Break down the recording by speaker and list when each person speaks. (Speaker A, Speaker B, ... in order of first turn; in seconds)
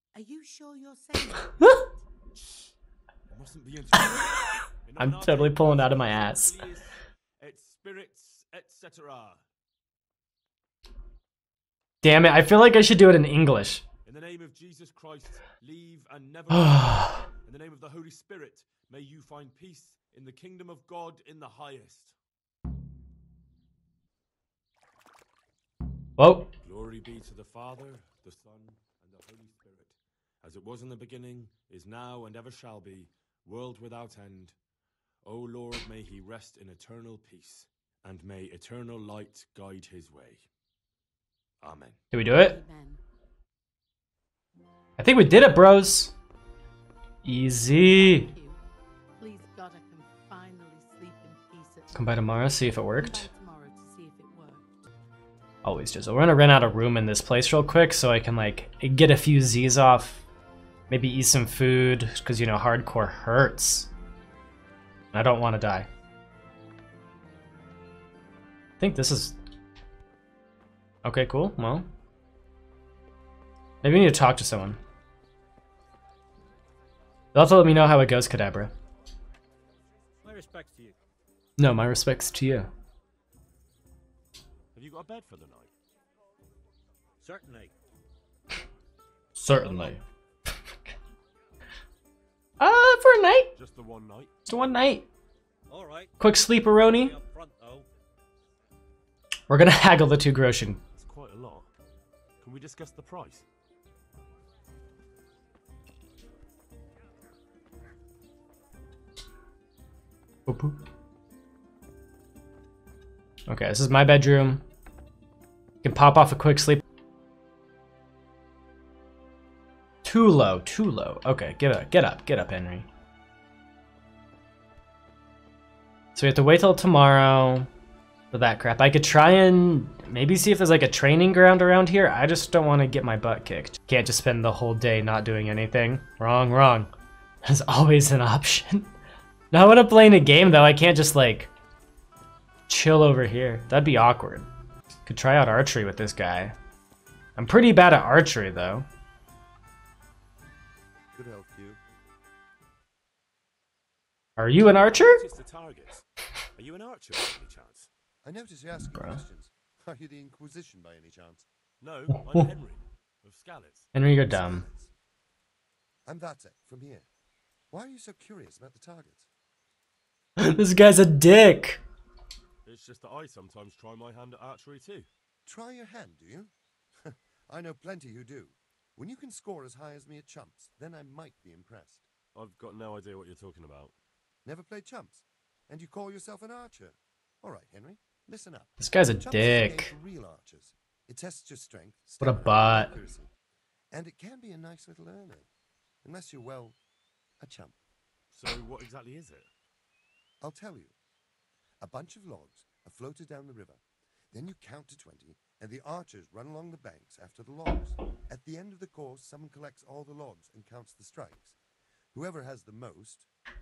Speaker A: 0.1-1.9, 42.3-43.0, 47.8-48.6, 49.2-54.9
Speaker B: 3.3-9.4, 14.1-22.1, 26.6-34.5, 35.2-40.5, 41.6-42.0, 84.7-85.7, 93.5-94.3, 101.0-101.7, 102.4-103.5, 154.9-156.0, 156.6-157.9, 161.8-163.9, 172.6-175.1, 182.3-183.9, 198.3-199.5
Speaker C: 5.0-6.6, 12.0-13.8, 16.5-17.2, 26.2-26.5, 42.1-42.6, 45.0-46.1, 47.2-48.3, 51.9-53.3, 55.6-60.2, 60.9-63.9, 65.1-65.9, 68.8-69.3, 71.0-71.8, 73.8-74.8, 77.3-78.7, 81.6-82.7, 89.3-90.0, 92.6-93.5, 94.5-95.1, 96.2-97.1, 99.5-100.8, 110.5-110.8, 113.5-114.6, 115.8-116.8, 120.0-122.9, 126.1-127.7, 128.3-136.9, 137.4-138.9, 139.5-141.5, 142.7-144.5, 145.1-146.6, 147.4-148.9, 154.4-155.2, 163.9-164.7, 170.4-171.8, 188.8-189.9, 192.2-192.9
Speaker D: 80.2-81.0, 87.2-87.7, 89.6-90.0, 95.7-96.2, 96.9-97.9
Speaker E: 151.1-151.8, 158.2-161.5, 164.2-164.9, 166.1-167.1, 167.7-169.3, 175.5-182.1, 184.4-193.3, 193.9-195.5, 196.0-196.8, 197.4-197.8, 200.4-200.9, 201.8-211.6, 212.1-213.3